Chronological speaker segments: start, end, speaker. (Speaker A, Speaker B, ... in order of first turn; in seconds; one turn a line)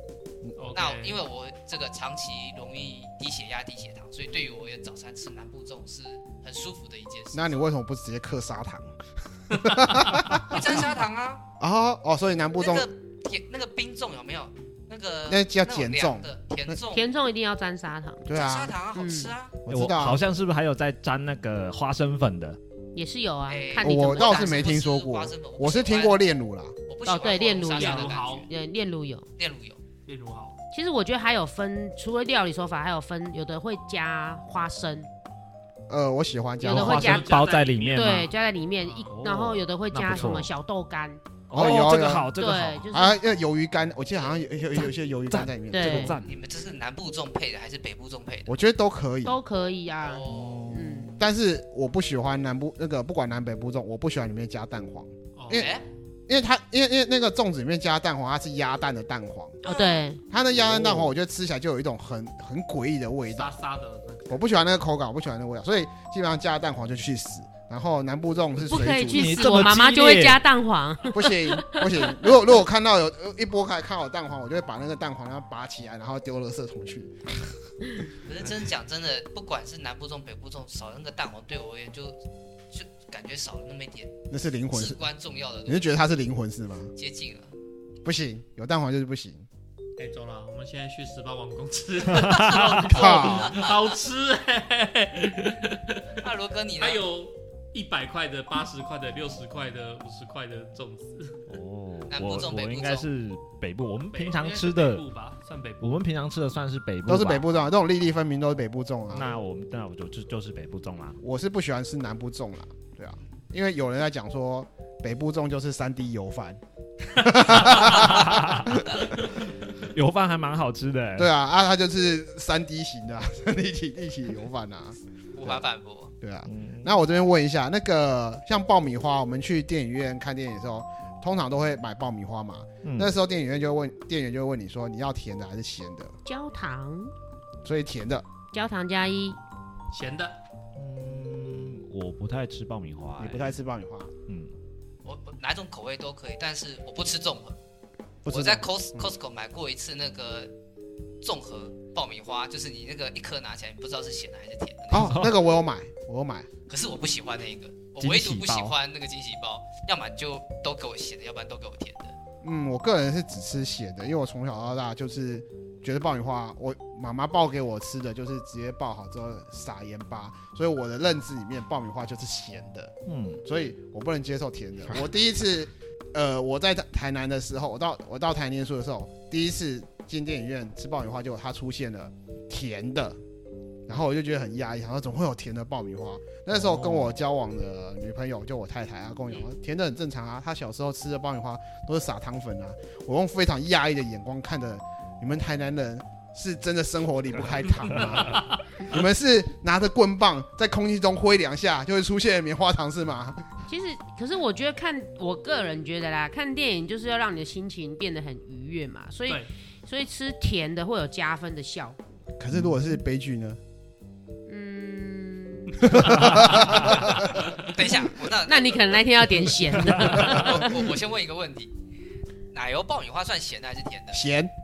Speaker A: 0.6-1.2
Speaker B: 0.7-7.6
Speaker C: 7.3-10.8
Speaker A: 9.5-10.3
Speaker B: 10.3-11.4
Speaker C: 11.6-12.9
Speaker B: 12.6-17.1
Speaker C: 15.3-16.8
Speaker D: 16.9-18.3
Speaker C: 18.2-18.7
Speaker B: 18.3-19.6
Speaker D: 18.9-19.3
Speaker C: 19.6-20.2
Speaker E: 19.7-22.6
Speaker D: 22.9-24.7
Speaker B: 23.5-26.2
Speaker C: 23.8-26.7
Speaker B: 26.9-28.5
Speaker D: 27.1-29.3
Speaker A: 27.7-28.5
Speaker B: 29.4-29.8
Speaker A: 30.1-30.6
Speaker D: 30.7-35.1
Speaker C: 35.9-37.0
Speaker D: 36.6-37.4
Speaker E: 36.7-38.3
Speaker A: 36.7-39.2
Speaker D: 37.9-41.2
Speaker E: 39.1-40.5
Speaker A: 40.1-40.4
Speaker E: 41.5-42.8
Speaker C: 41.5-42.3
Speaker D: 42.4-43.2
Speaker C: 42.9-46.2
Speaker E: 44.8-46.3
Speaker D: 45.7-46.1
Speaker B: 46.2-48.5
Speaker C: 48.5-49.4
Speaker D: 49.2-51.1
Speaker B: 50.0-50.7
Speaker E: 50.3-51.2
Speaker C: 51.2-55.7
Speaker A: 55.4-56.0
Speaker B: 55.5-55.8
Speaker C: 56.3-59.6
Speaker D: 59.6-60.2
Speaker B: 59.6-60.0
Speaker C: 60.3-63.5
Speaker E: 60.5-61.1
Speaker A: 63.3-64.5
Speaker C: 64.3-69.5
Speaker D: 68.7-72.3
Speaker E: 69.1-70.4
Speaker C: 71.1-77.5
Speaker B: 78.2-84.2
Speaker C: 84.3-85.0
Speaker B: 84.7-86.0
Speaker C: 85.7-86.9
Speaker B: 87.0-87.5
Speaker C: 88.0-89.5
Speaker A: 90.0-101.4
Speaker E: 92.1-92.9
Speaker B: 92.8-93.8
Speaker C: 92.9-93.5
Speaker B: 96.2-97.1
Speaker E: 101.5-105.0
Speaker B: 102.1-103.1
Speaker A: 104.1-106.0
Speaker E: 105.8-107.5
Speaker C: 107.1-109.3
Speaker E: 109.1-111.2
Speaker C: 111.2-116.6
Speaker C: 117.1-119.0
Speaker E: 117.5-121.3
Speaker C: 121.2-125.6
Speaker B: 125.3-126.1
Speaker C: 126.2-136.2
Speaker E: 126.4-126.9
Speaker E: 132.8-133.1
Speaker D: 136.2-137.1
Speaker C: 137.6-138.2
Speaker D: 138.5-139.4
Speaker A: 139.9-140.4
Speaker E: 140.8-143.5
Speaker C: 143.2-144.1
Speaker E: 144.3-144.5
Speaker B: 145.0-147.6
Speaker C: 148.2-149.1
Speaker B: 148.2-150.5
Speaker B: 151.2-155.2
Speaker C: 154.9-156.5
Speaker E: 154.9-155.3
Speaker B: 156.7-162.2
Speaker E: 158.0-158.7
Speaker C: 162.4-172.9
Speaker E: 173.1-173.4
Speaker C: 173.4-183.2
Speaker C: 183.9-203.4
Speaker E: 186.5-187.2
Speaker A: 197.9-198.6
Speaker D: 203.7-212.0
Speaker C: 212.4-213.6
Speaker D: 214.4-216.4
Speaker C: 215.8-217.4
Speaker E: 215.9-217.1
Speaker B: 217.6-221.8
Speaker D: 218.4-220.7
Speaker B: 222.5-224.2
Speaker C: 224.1-224.5